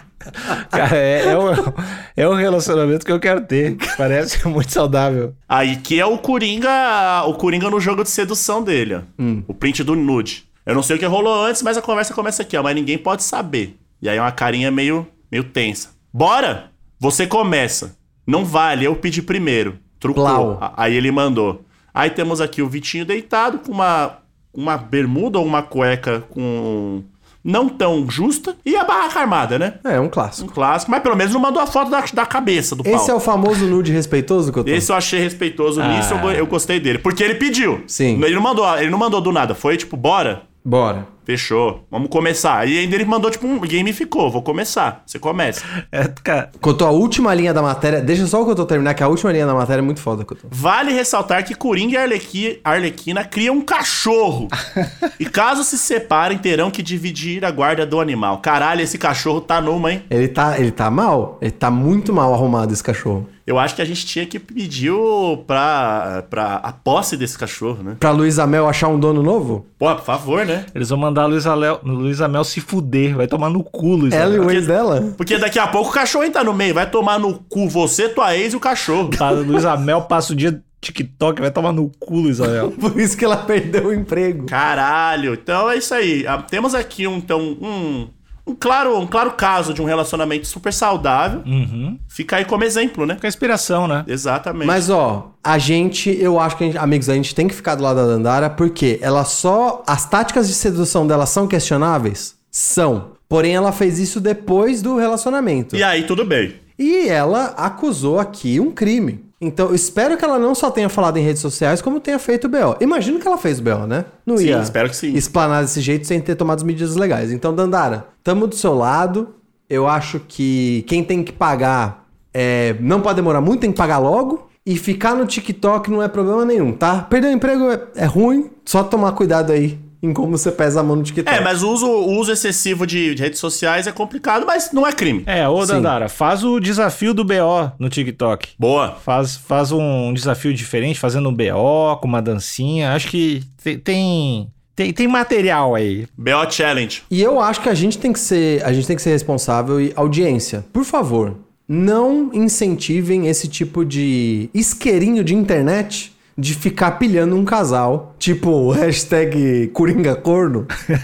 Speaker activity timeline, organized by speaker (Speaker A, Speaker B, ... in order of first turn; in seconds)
Speaker A: 0.4-5.3, 35.8-36.5, 45.8-46.5, 70.7-74.5, 79.1-82.7, 91.5-92.0, 93.2-94.1, 135.3-146.1
Speaker B: 5.5-29.8, 30.4-33.1, 34.6-40.4, 41.3-45.7, 50.5-54.6, 55.2-60.0, 63.5-68.0, 69.8-70.7, 74.4-79.2, 84.5-91.5, 92.1-93.2, 94.1-94.9, 105.7-106.6, 114.4-115.2, 131.3-135.3, 138.6-139.0, 146.2-147.0
Speaker C: 9.2-9.5, 20.1-20.6, 29.8-30.5, 32.8-34.9, 37.9-38.3, 40.6-41.1, 46.6-50.5, 60.1-63.3, 68.0-69.7, 74.1-75.2, 82.4-84.5, 94.6-105.8, 106.8-131.5, 135.6-135.9, 147.1-160.7